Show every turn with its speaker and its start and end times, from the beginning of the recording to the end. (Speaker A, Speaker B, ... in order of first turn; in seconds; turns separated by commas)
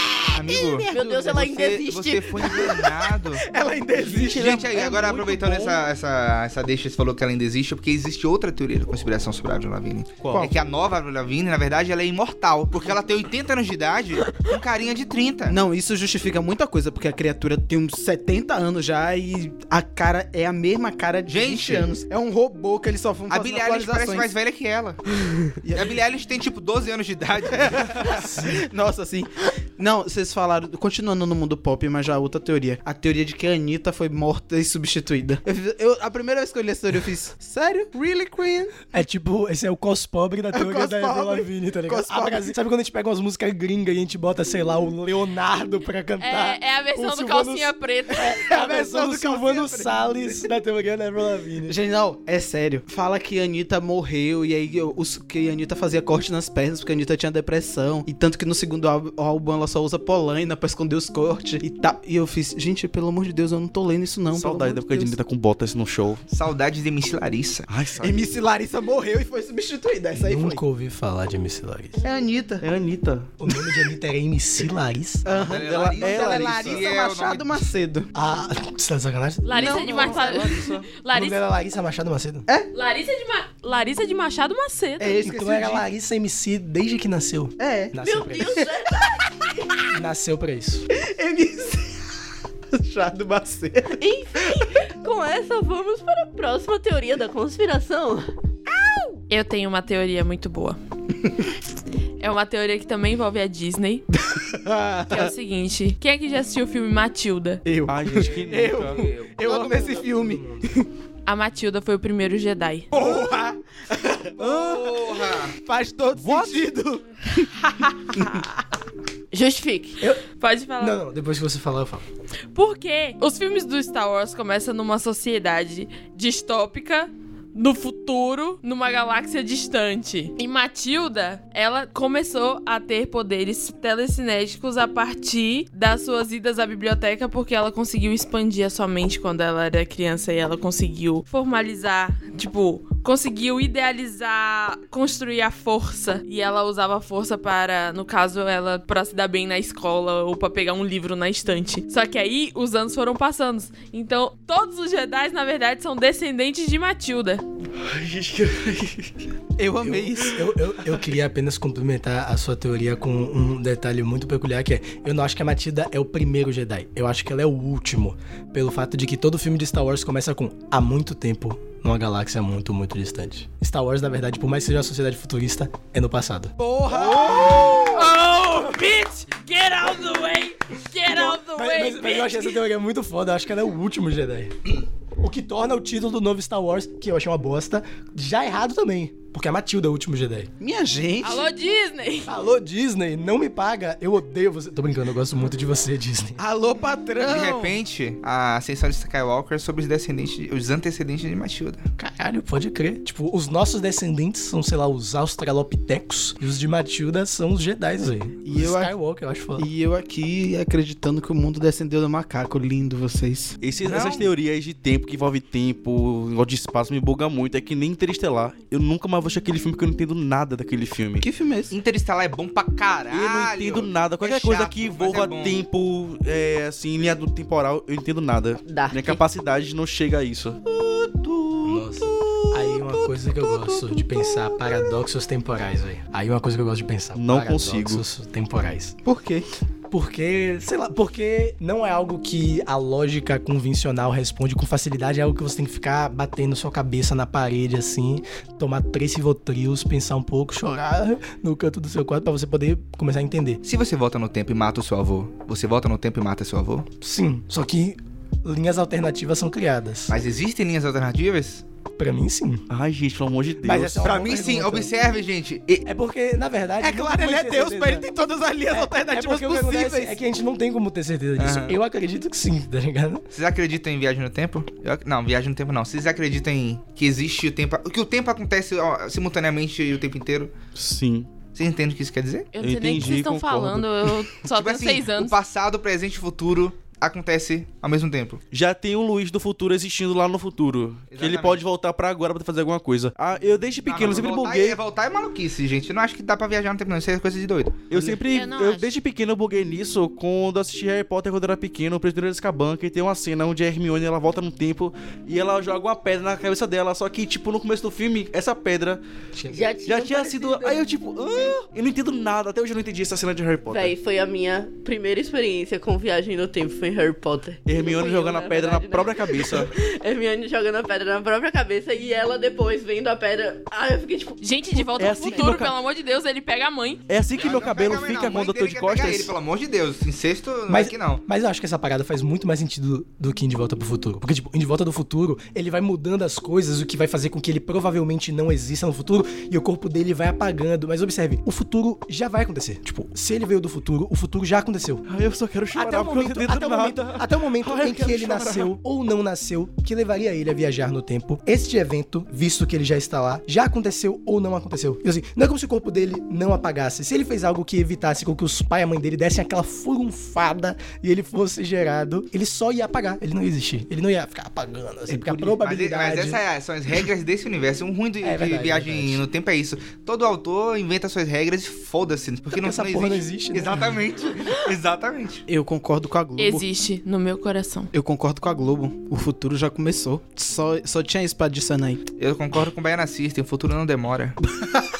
Speaker A: 0.1-1.3, Speaker B: 0.3-2.5, Speaker C: 0.3-3.5, Speaker A: 2.4-4.6, Speaker D: 4.0-5.8, Speaker C: 4.3-15.6, Speaker D: 10.2-10.5, Speaker A: 15.5-24.3, Speaker C: 21.3-21.9, Speaker C: 23.3-25.1, Speaker A: 25.6-25.9, Speaker C: 25.7-28.2, Speaker A: 27.6-38.8, Speaker E: 28.1-28.6, Speaker E: 38.9-51.8, Speaker A: 40.5-42.5, Speaker F: 46.2-48.5, Speaker A: 48.3-50.0, Speaker A: 51.7-65.2, Speaker D: 64.3-66.2, Speaker C: 66.3-67.7, Speaker D: 67.7-68.2, Speaker A: 68.0-70.6, Speaker E: 70.2-72.0, Speaker A: 72.0-72.7, Speaker D: 72.6-73.3, Speaker E: 73.4-75.3, Speaker A: 75.2-78.1, Speaker C: 75.3-77.7, Speaker D: 75.5-76.8, Speaker E: 78.1-80.0, Speaker F: 79.4-81.4, Speaker A: 79.6-80.5, Speaker D: 79.6-80.9, Speaker E: 81.1-82.5, Speaker F: 82.7-85.1, Speaker A: 85.0-85.9, Speaker E: 85.2-88.7, Speaker A: 87.6-88.0, Speaker B: 88.0-89.1, Speaker A: 88.5-89.1, Speaker E: 89.9-90.9, Speaker A: 91.0-92.1, Speaker A: 92.7-94.0, Speaker B: 94.0-98.3, Speaker F: 99.3-100.8, Speaker F: 102.2-104.1, Speaker A: 104.3-105.3, Speaker F: 105.1-107.6, Speaker A: 107.7-110.9, Speaker D: 107.9-109.0, Speaker E: 109.4-110.6, Speaker F: 111.3-112.9, Speaker A: 112.9-118.5, Speaker C: 114.4-115.5, Speaker D: 116.2-116.7, Speaker B: 119.3-120.0, Speaker F: 120.4-121.0, Speaker E: 120.8-122.0, Speaker F: 122.5-157.4, Speaker D: 157.8-159.1, Speaker A: 159.6-160.4, Speaker E: 159.8-176.5, Speaker A: 176.6-178.0, Speaker D: 177.0-177.8, Speaker F: 177.1-182.6, Speaker E: 181.1-190.5, Speaker A: 190.6-191.5, Speaker F: 191.2-192.3, Speaker E: 192.3-196.4, Speaker A: 196.4-197.8, Speaker C: 197.2-201.8, Speaker E: 202.0-209.7, Speaker A: 208.4-208.9, Speaker A: 209.6-213.6, Speaker D: 213.6-221.3, Speaker C: 213.8-214.3, Speaker A: 221.2-221.7, Speaker C: 221.7-225.6, Speaker D: 223.1-231.6, Speaker B: 228.7-229.2, Speaker E: 231.6-239.0, Speaker D: 237.2-238.0, Speaker A: 239.1-239.5, Speaker E: 239.9-253.6, Speaker C: 253.6-256.9, Speaker E: 257.0-260.2, Speaker C: 260.1-261.6, Speaker E: 262.0-262.6, Speaker D: 262.7-264.1, Speaker E: 263.6-264.9, Speaker C: 264.0-265.9, Speaker E: 265.9-268.1, Speaker A: 266.8-270.2, Speaker E: 268.7-273.2, Speaker C: 271.4-271.8, Speaker C: 273.3-280.5, Speaker D: 280.8-281.3, Speaker C: 281.6-282.5, Speaker F: 282.5-285.4, Speaker D: 282.6-283.9, Speaker C: 284.5-288.4, Speaker D: 288.5-294.8, Speaker C: 291.1-291.6, Speaker C: 293.9-297.9, Speaker D: 297.9-309.0, Speaker F: 298.3-298.9, Speaker E: 309.4-309.6, Speaker B: 309.5-311.5, Speaker D: 309.9-313.9, Speaker B: 313.7-324.4, Speaker D: 317.6-319.7, Speaker F: 324.4-327.0, Speaker D: 324.8-325.8, Speaker D: 327.1-329.3, Speaker C: 327.4-331.2, Speaker E: 330.7-345.1, Speaker D: 345.1-348.7, Speaker E: 345.7-366.4, Speaker A: 365.1-365.6, Speaker C: 365.6-375.4, Speaker E: 368.2-369.2, Speaker E: 372.5-374.0, Speaker A: 375.5-376.6, Speaker F: 376.4-377.9, Speaker A: 377.9-382.0, Speaker C: 382.2-384.4